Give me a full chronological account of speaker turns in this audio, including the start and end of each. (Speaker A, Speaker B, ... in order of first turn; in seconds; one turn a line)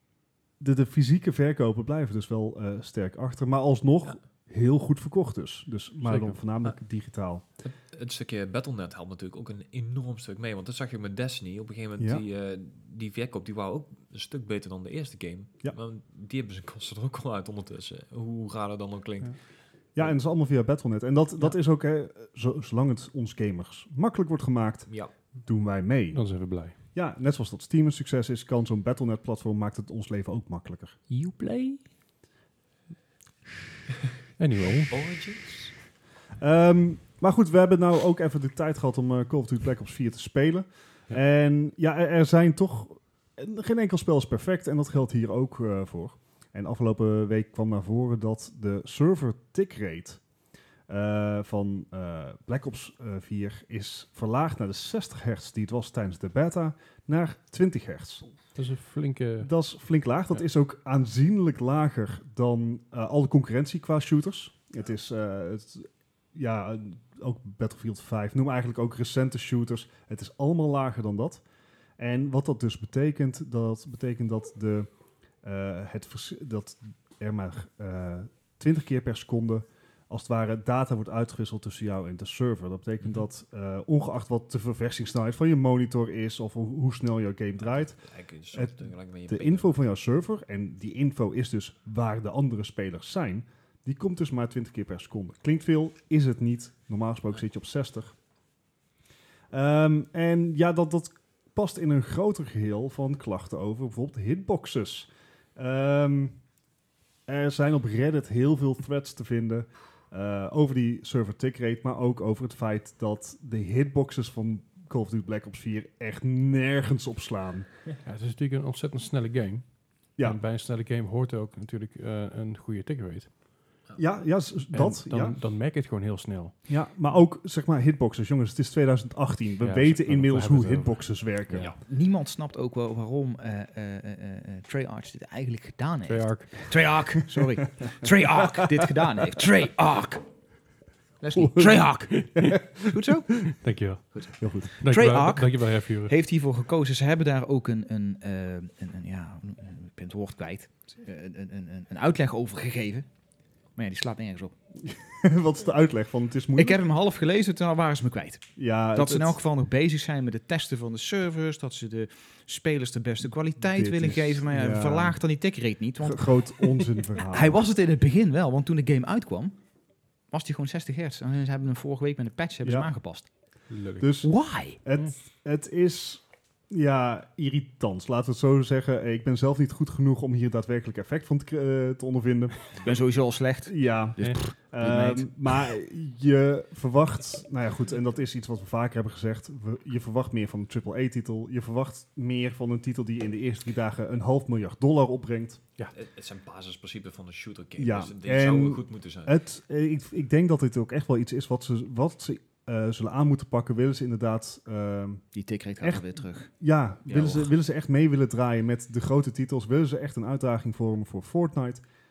Speaker A: 0.6-7.4
Speaker B: 6.0-6.4
Speaker C: 7.6-20.1
Speaker A: 12.0-12.2
Speaker A: 19.9-31.0
Speaker B: 26.1-26.7
Speaker B: 34.4-34.9
Speaker C: 34.7-35.7
Speaker A: 36.4-50.2
Speaker A: 50.9-58.3
Speaker B: 58.5-59.5
Speaker A: 59.4-71.4
Speaker A: 72.0-74.9
Speaker A: 75.4-88.0
Speaker C: 87.6-89.9
Speaker A: 88.5-98.2
Speaker A: 99.5-106.4
Speaker A: 107.3-117.7
Speaker B: 118.0-123.3
Speaker A: 124.0-125.4
Speaker B: 124.7-126.6
Speaker A: 126.7-131.7
Speaker B: 129.6-131.7
Speaker D: 131.8-140.2
Speaker B: 136.1-136.7
Speaker D: 141.2-143.4
Speaker A: 141.4-141.7
Speaker B: 141.6-142.7
Speaker B: 143.5-146.1
Speaker A: 144.4-144.7
Speaker D: 144.8-153.1
Speaker D: 153.8-154.5
Speaker A: 154.8-156.8
Speaker D: 156.6-169.6
Speaker A: 158.6-159.4
Speaker A: 163.7-165.2
Speaker A: 166.0-167.6
Speaker D: 170.3-173.5
Speaker A: 172.6-172.9
Speaker B: 173.7-174.1
Speaker A: 174.0-182.8
Speaker D: 174.2-174.8
Speaker D: 182.8-185.3
Speaker A: 183.7-195.6
Speaker C: 195.9-199.3
Speaker A: 197.8-205.3
Speaker D: 205.3-206.5
Speaker A: 205.8-211.8
Speaker C: 207.1-207.5